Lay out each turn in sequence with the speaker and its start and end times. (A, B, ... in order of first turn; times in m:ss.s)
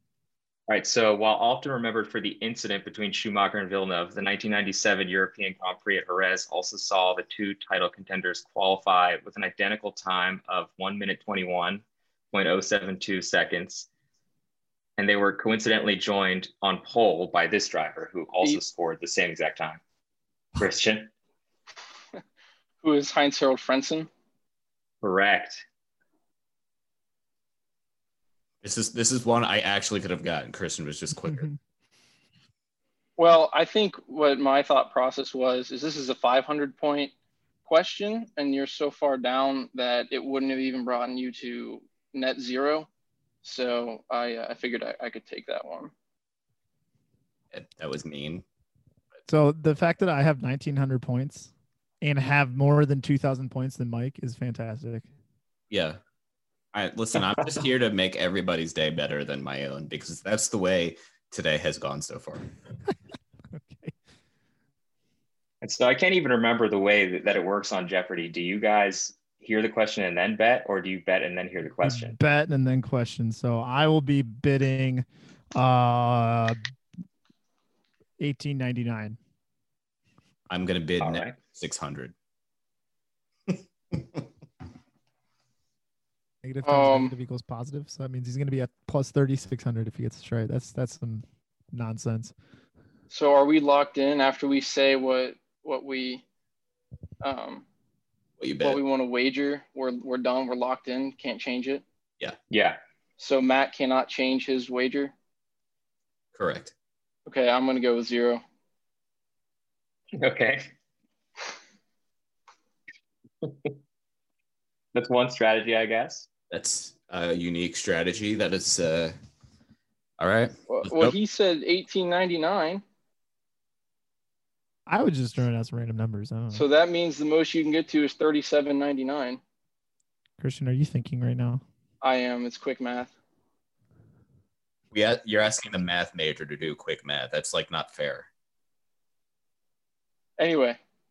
0:00.7-0:13.9 A
0:15.0-0:19.8 A
0:20.6-0:21.1 A
0:22.8-0:24.1 B
0:25.0-0:25.6 A
0:28.6-0:31.5 C
0:33.2-0:37.1 B
0:37.7-0:42.9 B
0:43.4-0:45.9 B
0:47.5-0:48.4 C
0:49.3-0:51.5 D
0:52.0-0:55.1 D
0:55.7-0:56.0 C
0:56.7-1:02.4 C
1:03.5-1:03.9 D
1:05.6-1:12.2 A
1:11.8-1:16.6 D
1:18.2-1:19.2 D
1:20.5-1:22.1 C
1:21.0-1:21.4 A
1:23.5-1:24.2 C
1:26.4-1:32.3 D
1:26.6-1:27.1 B
1:33.1-1:36.2 B
1:37.2-1:37.6 B
1:38.4-1:38.8 C
1:38.6-1:41.8 B
1:42.5-1:42.8 A
1:43.2-1:45.1 B
1:46.3-1:46.7 C
1:47.3-1:48.4 B
1:50.2-1:50.7 A
1:53.4-1:53.7 A
1:55.0-1:56.3 A
1:56.5-1:59.2 C
2:00.2-2:01.2 C
2:00.7-2:02.8 B
2:04.9-2:06.6 D
2:06.5-2:09.4 B
2:10.4-2:11.6 D
2:12.0-2:13.1 B
2:14.9-2:18.3 C
2:20.4-2:20.8 B